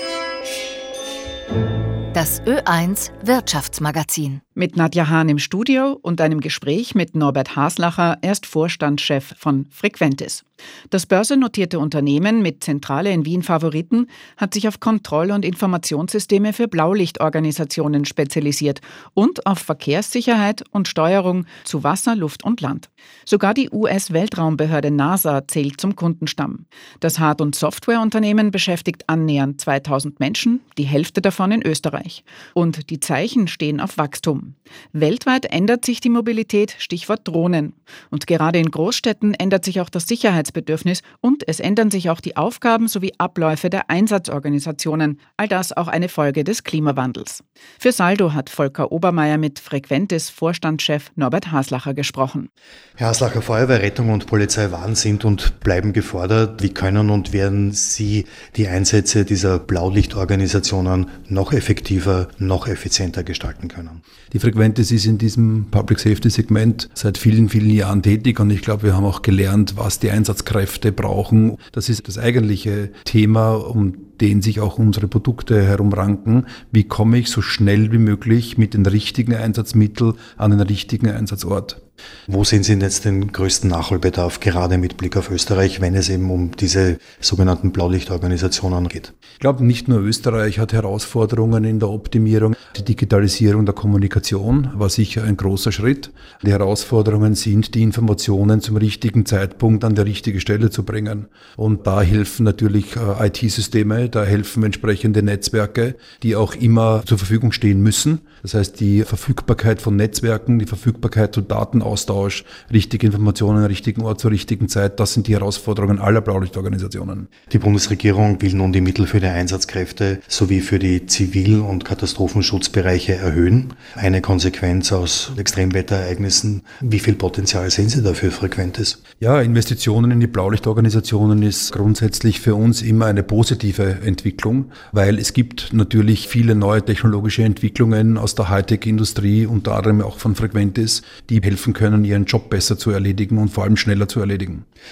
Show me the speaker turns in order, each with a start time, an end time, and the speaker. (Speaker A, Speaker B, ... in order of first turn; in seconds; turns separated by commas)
Speaker A: 2.1-4.4, Speaker B: 4.6-52.5, Speaker C: 53.0-64.0, Speaker D: 64.3-81.8, Speaker C: 82.3-89.1, Speaker D: 89.4-117.3, Speaker C: 117.5-129.0, Speaker D: 129.2-144.7